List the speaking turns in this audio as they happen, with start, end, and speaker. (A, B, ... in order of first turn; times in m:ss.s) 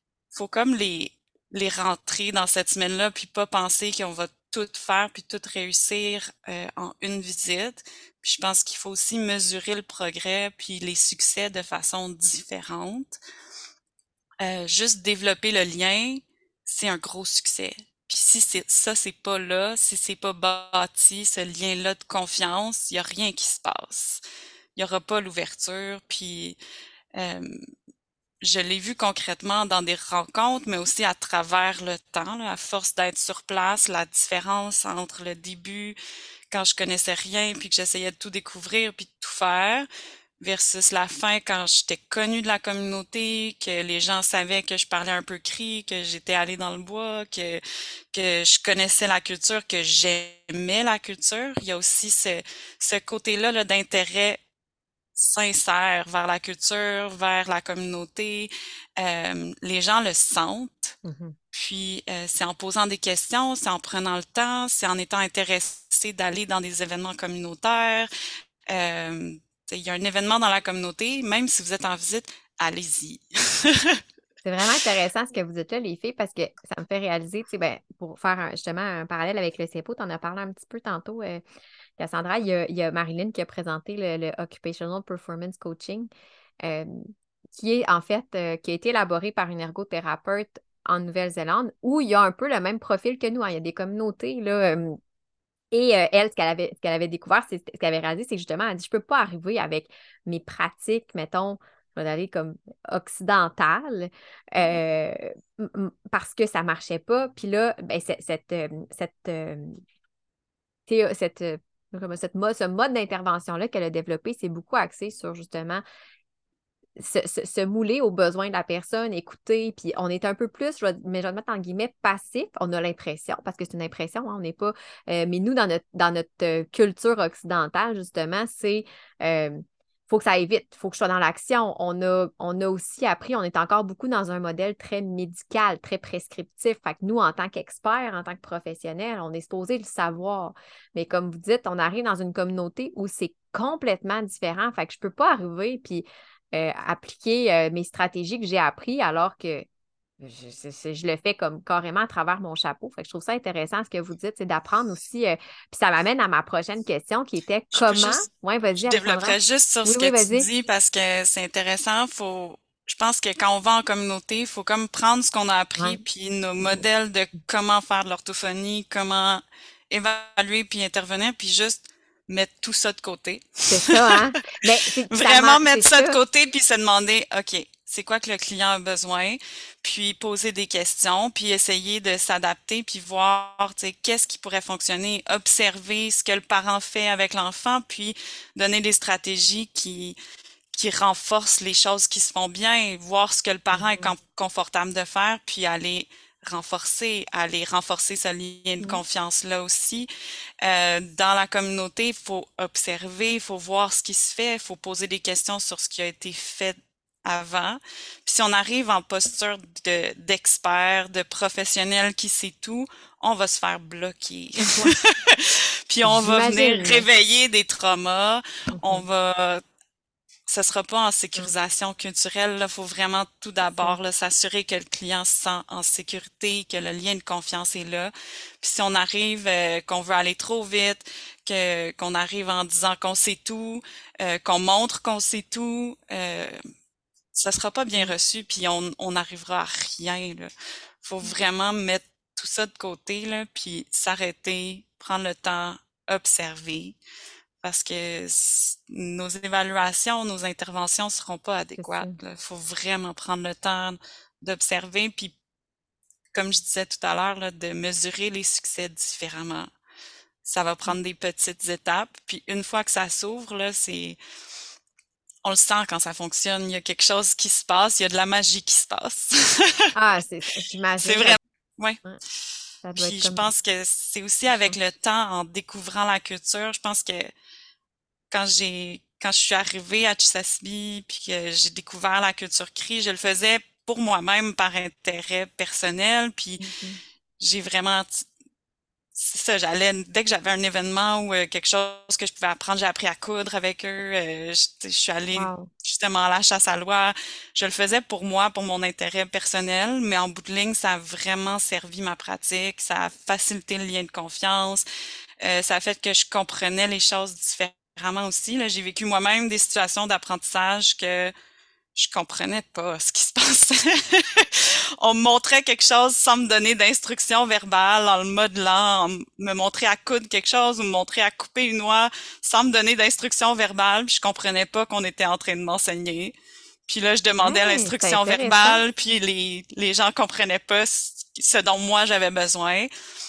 0:00.3-0:13.2 A
0:14.4-0:24.2 A
0:24.8-0:26.6 A
0:27.2-0:27.5 A
0:28.4-0:36.0 A
0:36.5-0:39.9 A
0:40.4-0:47.6 A
0:48.1-0:54.4 A
0:55.2-1:01.0 A
1:01.0-1:01.4 B
1:01.5-1:08.1 A
1:08.7-1:14.0 A
1:14.4-1:21.4 B
1:22.0-1:26.1 B
1:26.6-1:35.0 B
1:35.7-1:49.8 B
1:50.9-1:55.8 B
1:57.0-2:29.7 B
2:30.2-2:40.5 B
2:37.7-2:38.3 A
2:38.8-2:54.1 A
2:53.7-2:56.2 B
2:55.1-3:10.2 A
3:10.7-3:20.1 A
3:13.7-3:14.1 B
3:20.6-3:39.6 A
3:34.6-3:34.9 B
3:36.0-3:37.1 B
3:38.7-3:39.0 B
3:40.5-3:56.6 A
3:43.6-3:44.0 B
3:57.3-4:00.5 A
4:01.0-4:07.0 A
4:07.6-4:15.4 A
4:11.8-4:12.2 B
4:16.3-4:19.7 A
4:20.4-4:24.2 A
4:25.4-4:29.9 A
4:30.0-4:31.4 B
4:31.0-4:32.0 A
4:32.8-4:33.4 B
4:33.0-4:37.3 A
4:38.3-4:46.7 A
4:46.6-4:47.0 B
4:47.4-4:48.2 A
4:49.2-5:04.8 A
4:55.4-4:55.7 B
5:05.4-5:11.3 A
5:12.0-5:26.3 A
5:26.9-5:32.9 A
5:27.4-5:28.8 B